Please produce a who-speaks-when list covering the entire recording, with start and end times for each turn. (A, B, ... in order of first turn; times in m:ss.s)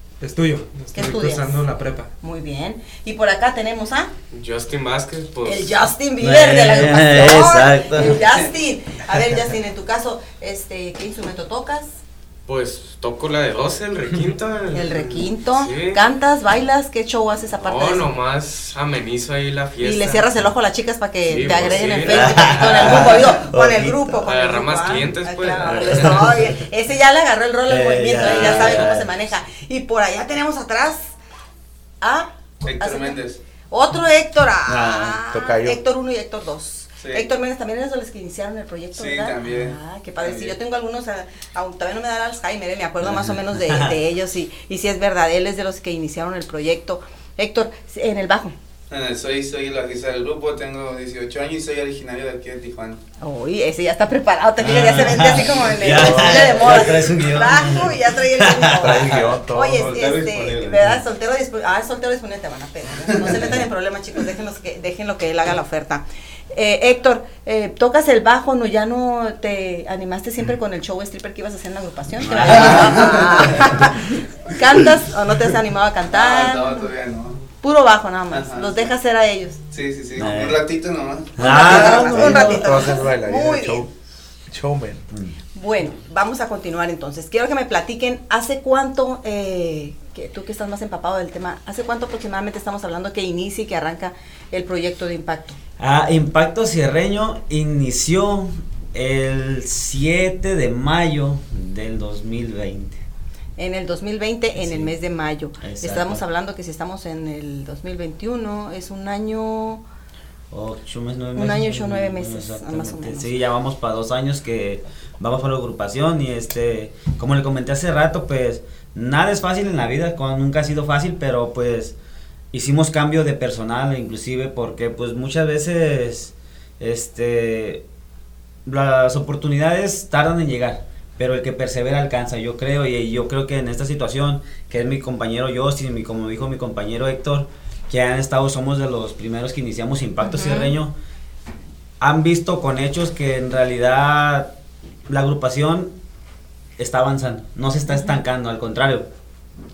0:00.2-0:02.1 A
0:00.9-0:01.6 B
0:02.2-0:04.1 B
0:04.3-0:05.8 C
0:05.4-0:11.9 B
0:06.2-0:08.3 D
0:12.4-0:16.0 C
0:14.7-0:18.1 B
0:17.6-0:20.4 C
0:19.8-0:31.0 B
0:21.3-0:23.1 C
0:21.3-0:22.0 A
0:22.1-0:24.0 D
0:24.2-0:26.3 C
0:25.7-0:26.6 D
0:27.7-0:29.1 D
0:28.2-0:28.8 C
0:32.0-0:33.2 B
0:32.6-0:33.4 E
0:33.7-0:48.5 B
0:34.7-0:35.2 D
0:35.3-0:35.8 F
0:37.0-0:37.2 E
0:39.0-0:40.6 E
0:43.0-0:44.0 D
0:48.9-0:53.0 E
0:53.2-1:16.8 B
0:54.6-0:59.3 D
0:55.9-0:56.5 F
0:58.7-1:00.8 F
0:59.9-1:00.5 E
1:12.3-1:13.9 D
1:16.1-1:17.4 E
1:17.6-1:19.6 B
1:18.3-1:18.9 E
1:19.7-1:22.0 E
1:20.2-1:20.6 D
1:21.4-1:22.7 D
1:21.4-1:23.9 B
1:21.5-1:23.9 F
1:24.5-1:25.0 F
1:25.5-1:35.6 B
1:35.8-1:43.0 D
1:43.6-1:49.8 B
1:44.5-1:44.9 D
1:45.6-1:46.2 D
1:50.5-2:02.0 D
1:51.3-1:53.3 B
2:02.5-2:07.8 D
2:08.6-2:20.9 D
2:20.2-2:20.7 B
2:22.0-2:24.5 D
2:25.1-2:26.0 D
2:26.8-2:29.1 D
2:27.9-2:28.2 B